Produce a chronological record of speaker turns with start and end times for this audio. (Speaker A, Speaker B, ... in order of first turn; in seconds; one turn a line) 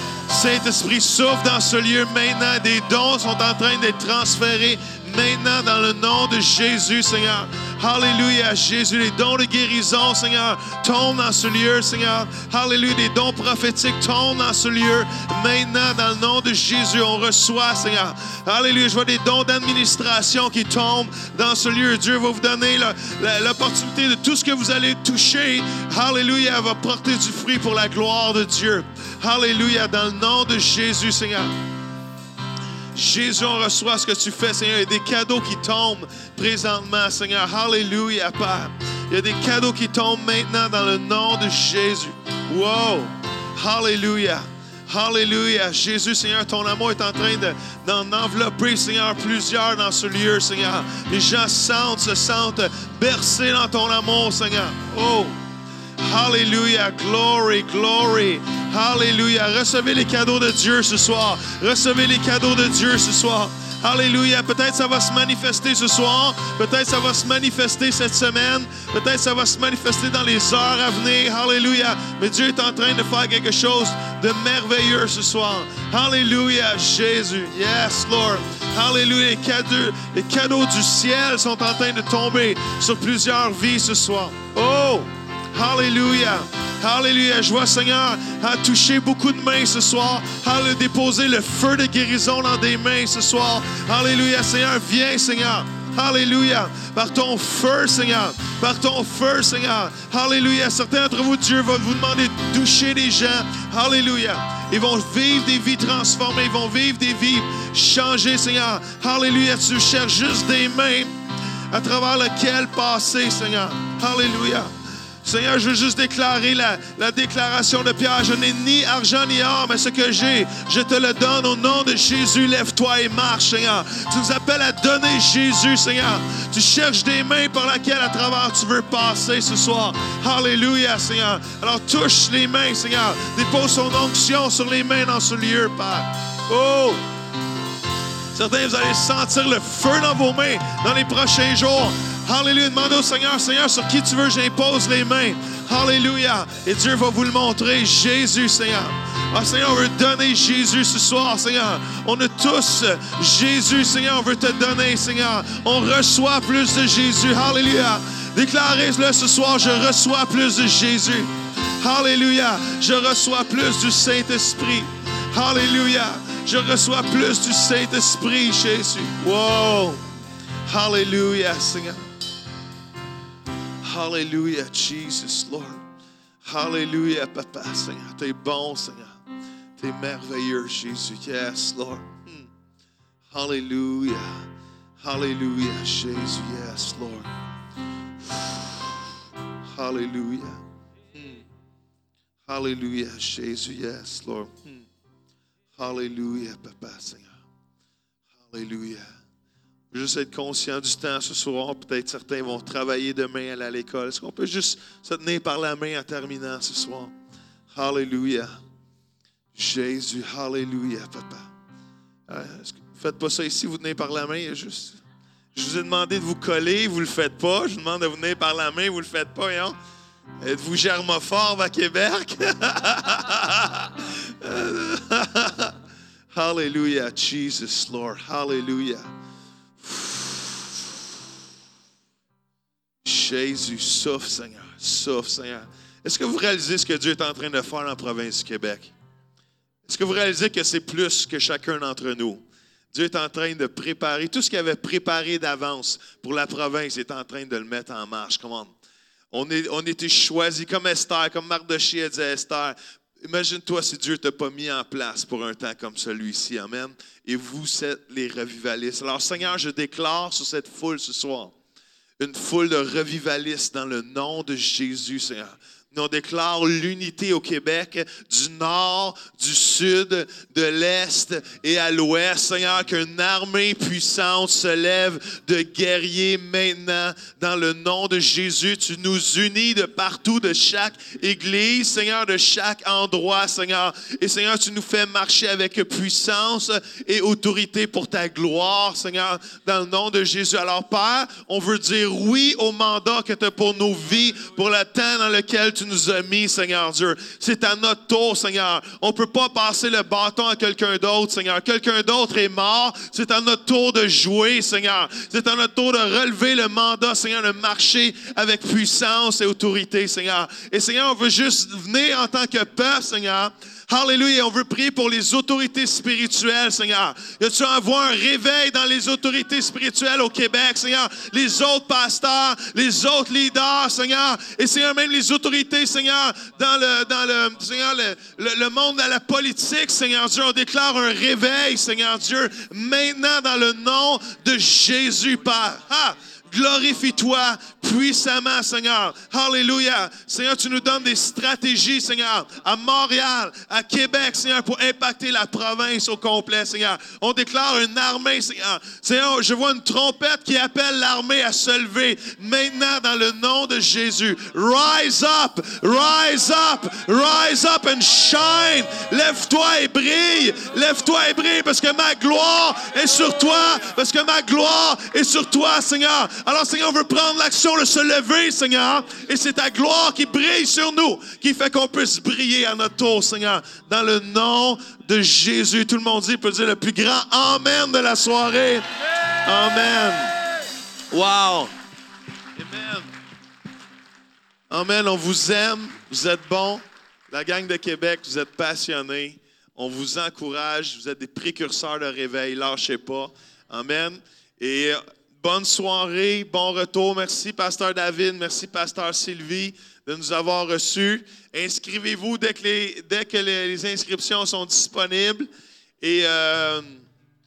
Speaker A: 0.3-31.5
Speaker A: 32.9-55.4
Speaker A: 56.0-111.1
Speaker A: 111.7-114.7
Speaker A: 115.2-137.0
Speaker A: 138.3-170.0
Speaker A: 170.7-172.0
Speaker A: 173.8-175.8
Speaker A: 176.4-179.1
Speaker A: 179.8-182.5
Speaker A: 183.3-184.4
Speaker A: 185.0-187.3
Speaker A: 188.2-188.9
Speaker A: 189.7-190.6
Speaker A: 191.1-191.4
Speaker A: 192.5-194.8
Speaker A: 195.8-197.3
Speaker A: 198.4-199.1
Speaker A: 199.9-207.1
Speaker A: 207.7-208.5
Speaker A: 209.5-211.5
Speaker A: 212.3-215.0
Speaker A: 215.5-219.8
Speaker A: 220.4-225.7
Speaker A: 226.3-229.1
Speaker A: 229.8-230.9
Speaker A: 233.0-238.9
Speaker A: 239.8-242.4
Speaker A: 242.9-248.7
Speaker A: 249.3-261.5
Speaker A: 262.2-378.9
Speaker A: 379.4-380.3
Speaker A: 381.1-381.7
Speaker A: 382.6-383.1
Speaker A: 384.7-405.5
Speaker A: 406.0-407.0